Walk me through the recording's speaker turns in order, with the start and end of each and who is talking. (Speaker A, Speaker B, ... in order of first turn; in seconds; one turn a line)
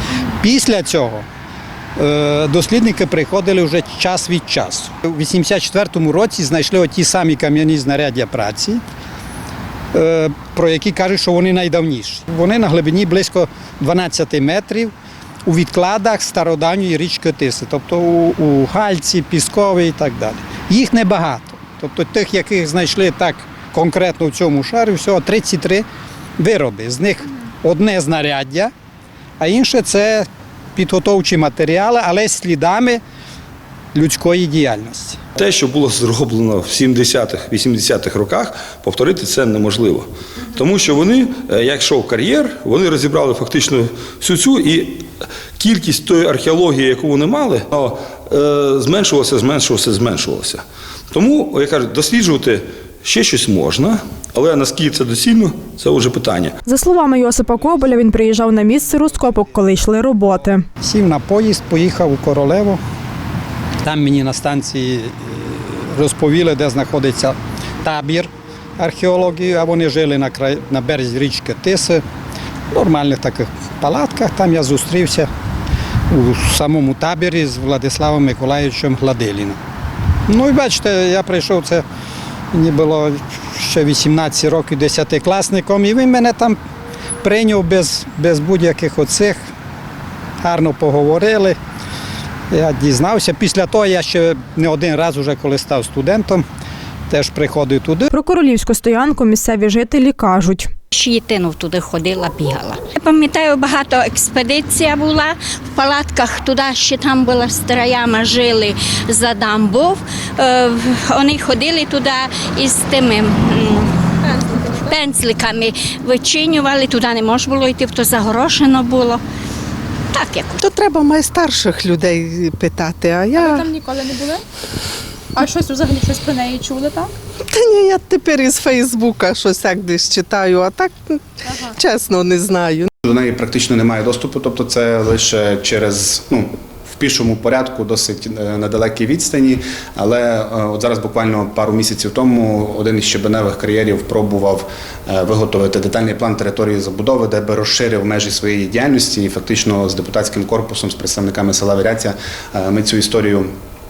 Speaker A: 0.4-1.3
Speaker A: 2.0-8.8
Speaker A: 9.9-14.9
Speaker A: 15.4-25.9
Speaker A: 26.4-28.7
Speaker A: 29.4-33.0
Speaker A: 33.9-35.2
Speaker B: 35.4-45.1
Speaker B: 45.6-56.5
Speaker C: 56.6-60.6
Speaker A: 60.8-62.8
Speaker A: 63.8-72.0
Speaker A: 72.7-75.3
Speaker A: 76.1-79.6
Speaker A: 80.3-81.8
Speaker A: 82.5-86.6
Speaker A: 87.2-89.5
Speaker A: 90.4-91.6
Speaker A: 92.5-96.4
Speaker A: 97.1-98.1
Speaker C: 98.1-100.7
Speaker D: 100.9-113.9
Speaker D: 114.5-119.2
Speaker D: 120.1-120.7
Speaker E: 120.7-123.7
Speaker F: 123.9-124.4
Speaker F: 125.5-127.1
Speaker C: 125.7-126.0
Speaker E: 127.7-130.9
Speaker E: 131.8-132.9
Speaker G: 133.0-153.5